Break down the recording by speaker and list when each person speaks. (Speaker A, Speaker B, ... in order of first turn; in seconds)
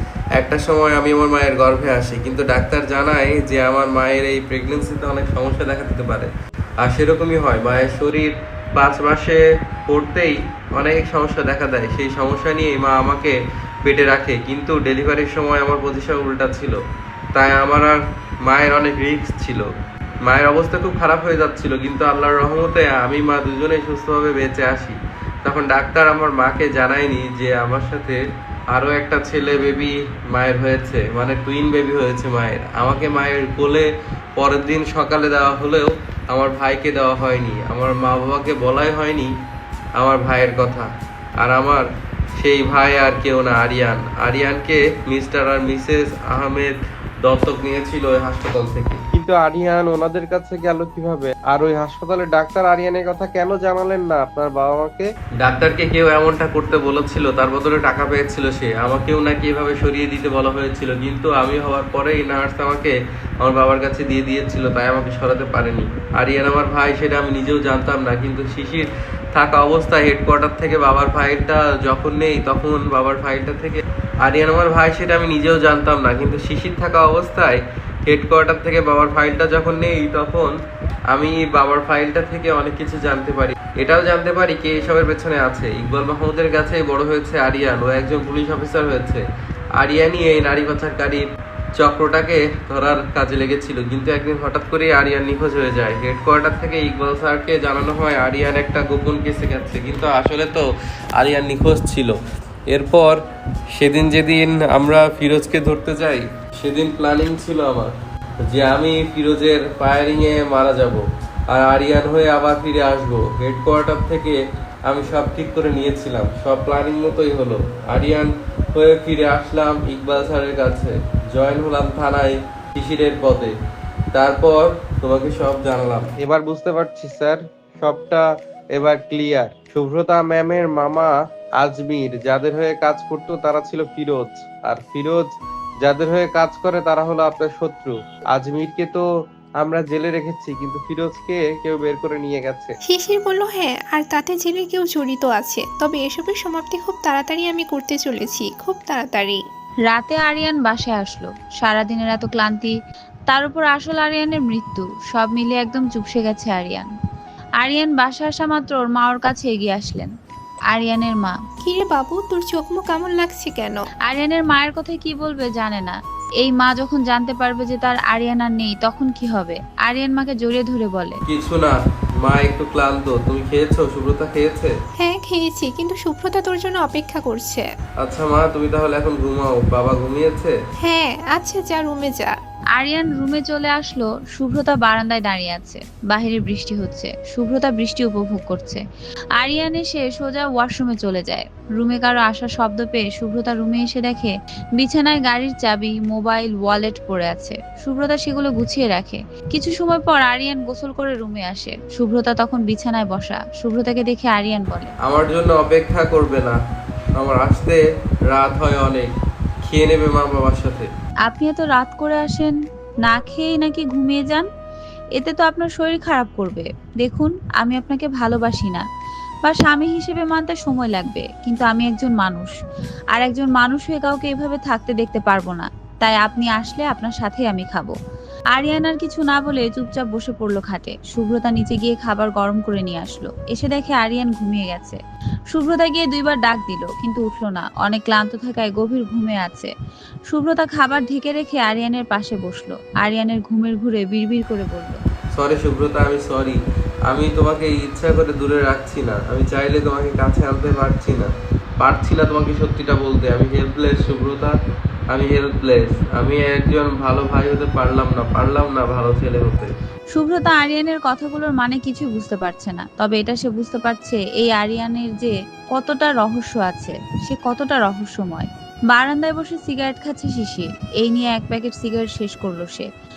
Speaker A: 0.4-16.8, 17.3-19.7, 20.2-39.3, 40.0-41.9, 42.4-80.5, 81.1-89.2, 89.8-91.2, 91.8-102.2, 102.7-103.2, 103.7-107.9, 108.5-123.5, 124.1-135.3, 135.8-139.0, 139.6-142.7, 171.3-174.7, 178.0-180.5, 205.0-206.6, 207.2-209.1, 209.6-210.9, 245.3-254.5, 255.1-259.7
Speaker B: 142.8-149.4, 161.6-163.8, 175.0-177.6, 180.8-182.3
Speaker C: 149.9-152.7, 153.3-156.9, 157.6-160.1, 160.7-161.4, 164.0-171.2, 182.7-188.8, 189.4-204.9, 211.2-214.5, 215.2-218.8, 219.4-222.5, 223.1-227.9, 228.5-235.0, 235.5-239.7, 240.3-245.0, 260.1-272.9